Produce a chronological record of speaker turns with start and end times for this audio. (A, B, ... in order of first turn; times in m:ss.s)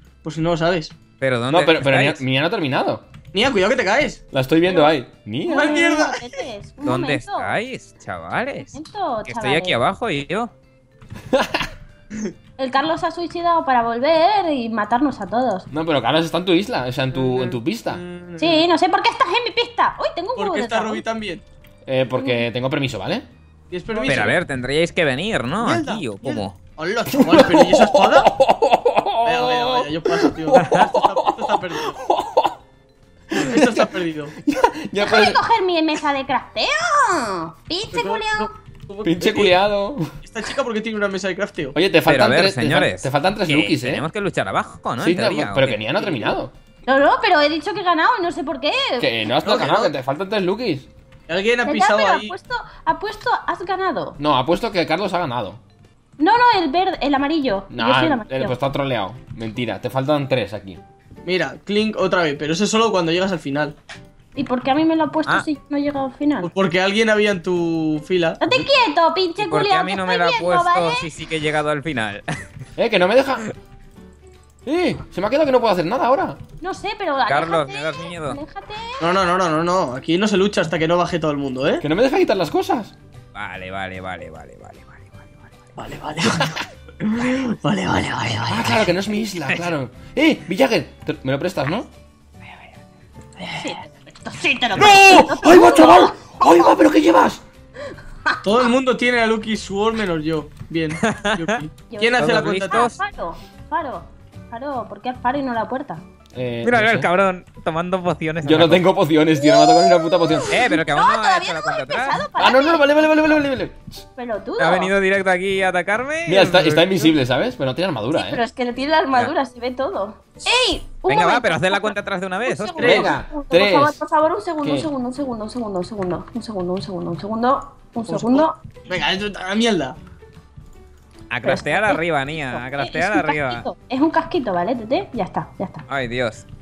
0:00.2-0:01.0 A
0:01.2-0:02.2 B
0:01.5-0:03.0 C
0:03.3-0:04.2 A
0:04.3-0:06.0 C
0:04.7-0:04.9 D
0:05.4-0:07.5 D
0:05.5-0:06.4 A
0:06.8-0:08.8 B
0:08.7-0:09.8 D
0:09.3-0:10.5 B
0:11.3-0:11.7 C
0:12.6-0:15.7 D
0:15.7-0:18.0 C
0:17.1-0:18.7 A
0:18.4-0:21.0 D
0:20.4-0:21.4 A
0:21.9-0:23.3 C
0:23.7-0:24.4 A
0:24.1-0:26.6 B
0:25.6-0:28.3 A
0:27.1-0:32.6 C
0:29.2-0:32.0 A
0:33.3-0:34.4 A
0:33.3-0:35.4 C
0:35.0-0:38.5 D
0:37.9-0:39.6 A
0:39.0-0:40.1 C
0:40.2-0:41.8 A
0:41.8-0:44.0 C
0:42.1-0:45.8 B
0:45.0-0:46.5 C
0:46.0-0:46.4 A
0:46.9-0:49.1 D
0:49.0-0:50.9 C
0:49.4-0:49.9 A
0:51.3-0:52.3 A
0:51.6-0:54.2 D
0:54.2-0:55.6 C
0:56.2-0:58.6 D
0:57.7-1:00.8 C
1:01.2-1:03.8 A
1:04.4-1:06.5 D
1:06.4-1:08.4 A
1:08.4-1:11.1 D
1:09.4-1:12.2 B
1:12.8-1:13.4 C
1:14.7-1:16.4 C
1:16.6-1:19.0 D
1:17.3-1:18.4 B
1:19.0-1:21.8 A
1:21.8-1:22.9 C
1:23.4-1:25.2 B
1:25.8-1:28.9 A
1:28.5-1:31.9 C
1:29.4-1:29.7 B
1:33.4-1:33.7 A
1:33.6-1:36.7 D
1:34.8-1:37.4 C
1:38.4-1:42.9 A
1:41.0-1:41.6 B
1:41.9-1:46.0 D
1:42.2-1:43.0 B
1:46.3-1:47.1 C
1:46.6-1:48.9 B
1:48.4-1:50.6 C
1:49.4-1:53.4 D
1:50.5-1:52.2 B
1:52.4-1:54.0 C
1:54.2-1:54.9 D
1:54.6-1:57.0 B
1:56.3-1:58.4 C
1:58.1-2:01.9 D
2:01.1-2:03.1 B
2:02.4-2:08.6 D
2:02.8-2:04.0 C
2:04.6-2:04.9 C
2:08.1-2:10.0 A
2:11.3-2:13.6 B
2:11.4-2:15.8 D
2:15.9-2:16.4 B